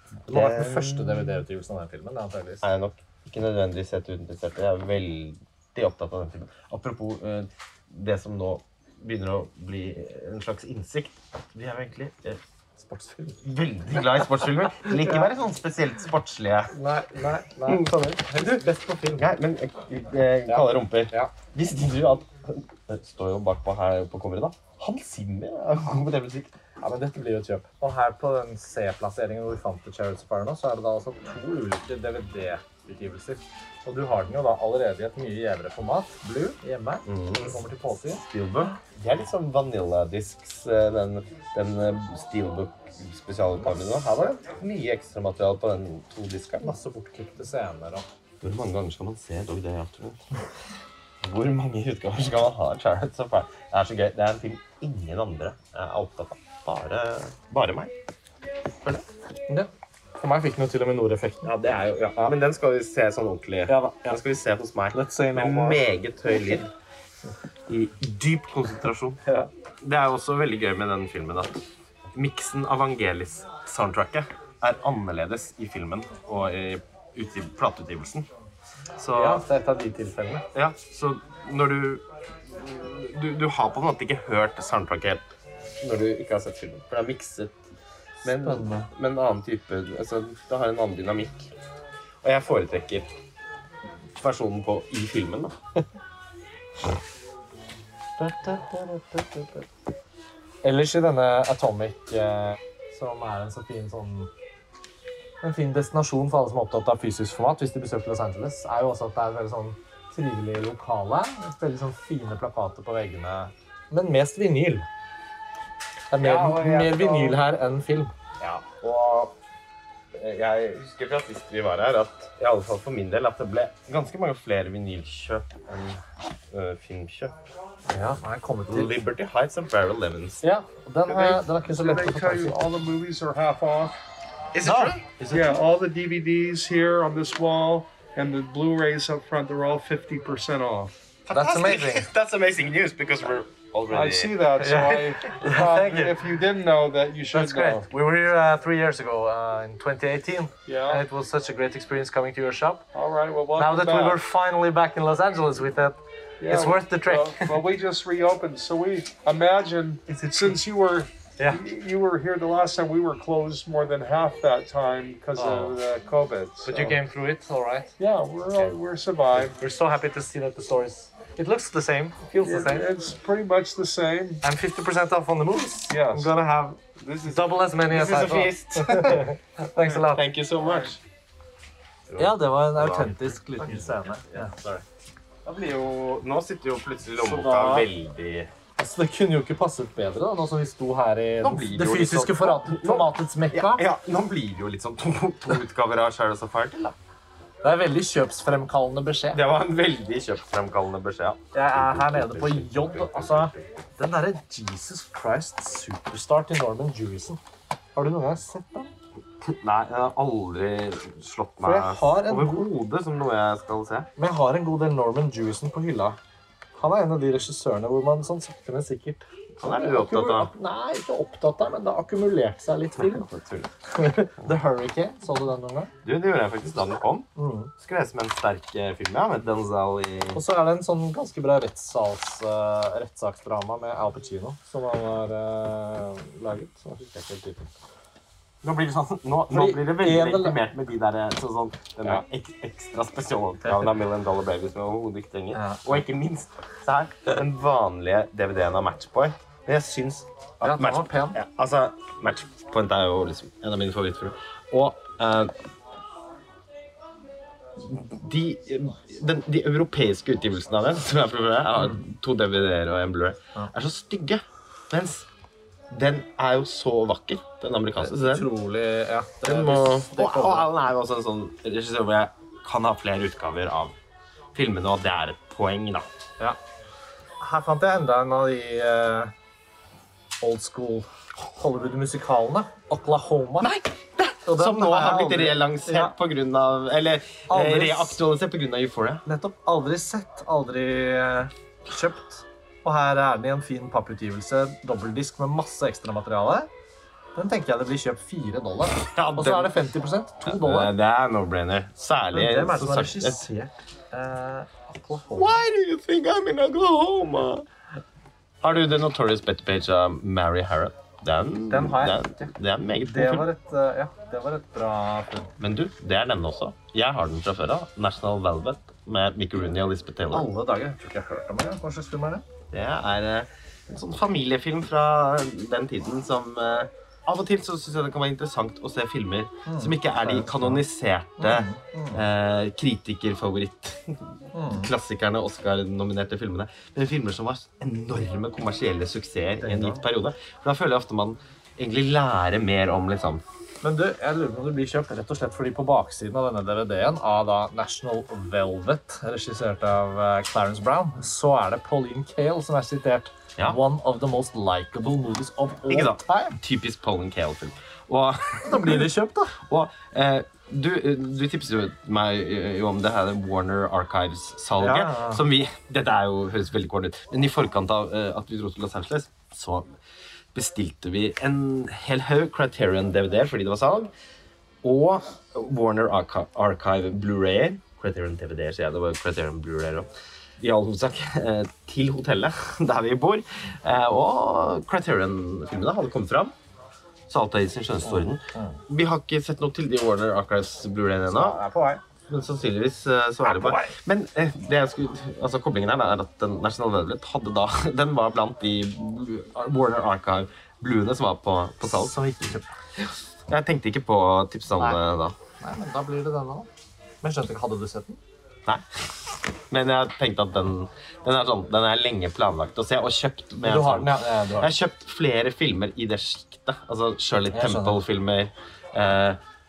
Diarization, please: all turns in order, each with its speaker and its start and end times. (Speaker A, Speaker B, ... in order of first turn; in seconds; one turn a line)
Speaker A: 0.3-1.4
Speaker B: 0.3-2.6
Speaker A: 2.6-12.4
Speaker B: 12.8-13.4
Speaker A: 13.4-16.7
Speaker B: 14.8-15.3
Speaker B: 16.7-19.2
Speaker A: 17.6-18.6
Speaker A: 19.1-26.5
Speaker B: 20.5-21.3
Speaker B: 26.8-38.2
Speaker A: 37.1-37.6
Speaker A: 38.2-46.8
Speaker B: 43.6-44.1
Speaker B: 46.6-48.1
Speaker A: 48.4-50.4
Speaker A: 51.2-57.9
Speaker B: 59.5-61.5
Speaker A: 61.4-66.7
Speaker B: 63.7-64.2
Speaker B: 64.9-66.6
Speaker A: 67.7-69.2
Speaker B: 69.2-69.5
Speaker A: 69.8-71.6
Speaker A: 72.1-78.3
Speaker A: 79.0-79.4
Speaker B: 79.1-80.5
Speaker A: 80.5-85.3
Speaker A: 85.8-87.6
Speaker A: 88.2-91.5
Speaker B: 88.2-88.9
Speaker A: 92.2-93.1
Speaker A: 94.2-95.6
Speaker B: 98.2-99.7
Speaker B: 100.6-104.3
Speaker B: 105.4-114.9
Speaker B: 116.1-118.1
Speaker A: 116.2-117.4
Speaker A: 118.4-119.4
Speaker A: 120.2-127.4
Speaker B: 127.9-128.9
Speaker A: 128.7-130.4
Speaker B: 130.4-132.7
Speaker C: 131.1-133.9
Speaker A: 134.5-135.2
Speaker B: 134.6-135.6
Speaker C: 135.3-140.9
Speaker A: 141.3-144.5
Speaker B: 141.3-142.1
Speaker C: 143.9-147.8
Speaker B: 144.6-146.1
Speaker B: 147.3-152.8
Speaker C: 150.7-151.0
Speaker C: 152.9-154.2
Speaker B: 153.6-157.6
Speaker C: 156.4-167.0
Speaker B: 165.4-165.8
Speaker B: 166.7-167.9
Speaker C: 168.0-169.5
Speaker B: 169.4-172.8
Speaker C: 172.4-174.4
Speaker B: 174.4-180.2
Speaker C: 175.9-176.3
Speaker A: 177.0-181.0
Speaker A: 182.1-184.8
Speaker B: 182.2-184.5
Speaker A: 185.4-188.5
Speaker B: 187.2-187.9
Speaker B: 188.8-193.9
Speaker A: 191.4-197.0
Speaker B: 197.6-199.4
Speaker A: 199.3-203.7
Speaker B: 201.5-207.4
Speaker B: 207.9-208.9
Speaker A: 209.4-214.1
Speaker B: 211.6-212.7
Speaker B: 214.2-216.2
Speaker B: 216.8-223.3
Speaker A: 219.6-220.5
Speaker A: 223.0-223.8
Speaker B: 223.9-225.9
Speaker A: 226.0-227.3
Speaker B: 227.4-227.7
Speaker A: 227.8-230.4
Speaker B: 230.3-237.7
Speaker A: 238.6-255.5
Speaker B: 239.5-240.6
Speaker B: 245.5-246.0
Speaker B: 250.6-251.4
Speaker A: 257.8-265.3
Speaker A: 265.9-268.5
Speaker B: 268.0-270.7
Speaker A: 269.4-273.9
Speaker A: 274.6-276.1
Speaker B: 277.4-279.3
Speaker B: 280.4-283.7
Speaker A: 283.6-289.2
Speaker B: 284.5-286.1
Speaker B: 287.5-288.2
Speaker B: 289.3-296.7
Speaker B: 297.4-300.9
Speaker A: 299.0-299.8
Speaker A: 300.4-303.5
Speaker B: 302.3-305.6
Speaker A: 305.3-307.7
Speaker A: 308.6-313.5
Speaker B: 311.7-315.5
Speaker A: 315.6-320.5
Speaker B: 320.3-322.4
Speaker A: 322.7-343.4
Speaker B: 329.7-330.8
Speaker B: 331.4-332.2
Speaker B: 334.5-334.9
Speaker B: 339.6-340.0
Speaker B: 343.8-356.6
Speaker A: 355.9-370.0
Speaker B: 358.6-359.6
Speaker B: 364.8-365.4
Speaker A: 370.5-374.1
Speaker A: 374.8-380.1
Speaker A: 380.6-386.5
Speaker A: 387.3-391.6
Speaker B: 388.1-388.8
Speaker B: 391.3-392.0
Speaker A: 392.3-402.2
Speaker B: 393.5-393.9
Speaker B: 401.8-402.7
Speaker A: 403.5-405.4
Speaker B: 405.6-406.7
Speaker B: 407.2-408.2
Speaker A: 408.7-419.4
Speaker B: 413.6-414.7
Speaker B: 417.5-418.0